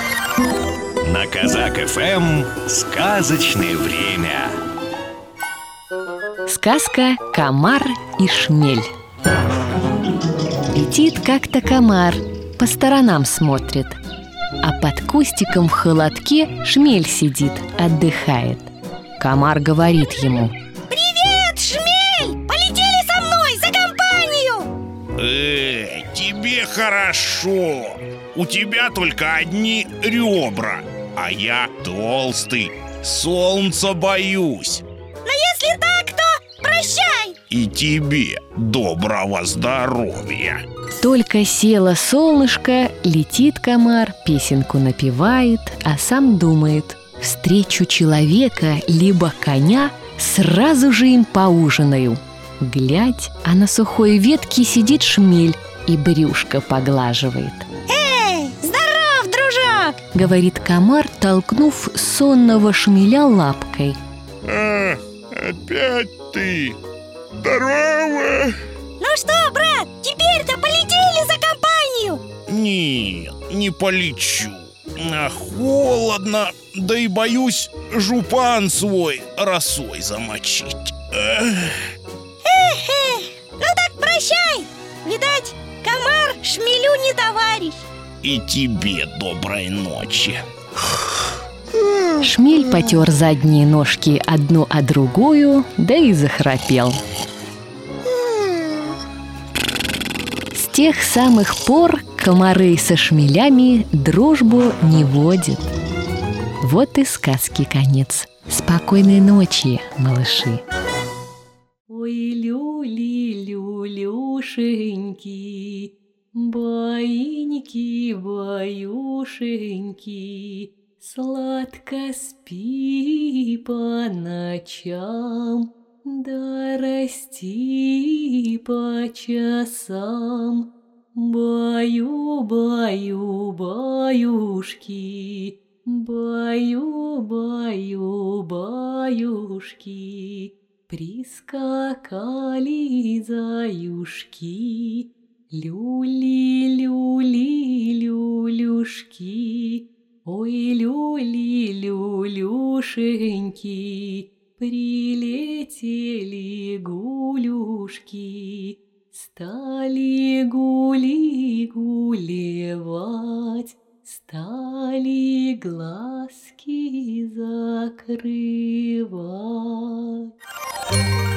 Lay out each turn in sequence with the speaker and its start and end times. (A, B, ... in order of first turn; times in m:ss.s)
0:01.0-0:04.5 A
0:06.5-0:08.9 B
0:10.7-0:14.0 B
0:14.6-0:20.5 B
0:20.9-0:24.7 C
0:25.2-0:34.8 D
0:35.2-0:37.4 C
0:37.5-0:40.6 D
0:41.0-0:57.7 B
0:57.9-1:00.0 C
1:00.1-1:04.0 B
1:04.5-1:06.8 D
1:07.4-1:08.6 D
1:09.0-1:12.2 C
1:12.5-1:21.9 D
1:22.4-1:27.8 C
1:28.2-1:30.4 D
1:32.2-1:37.0 B
1:40.5-1:45.7 B
1:46.6-1:50.6 B
1:51.9-2:50.3 B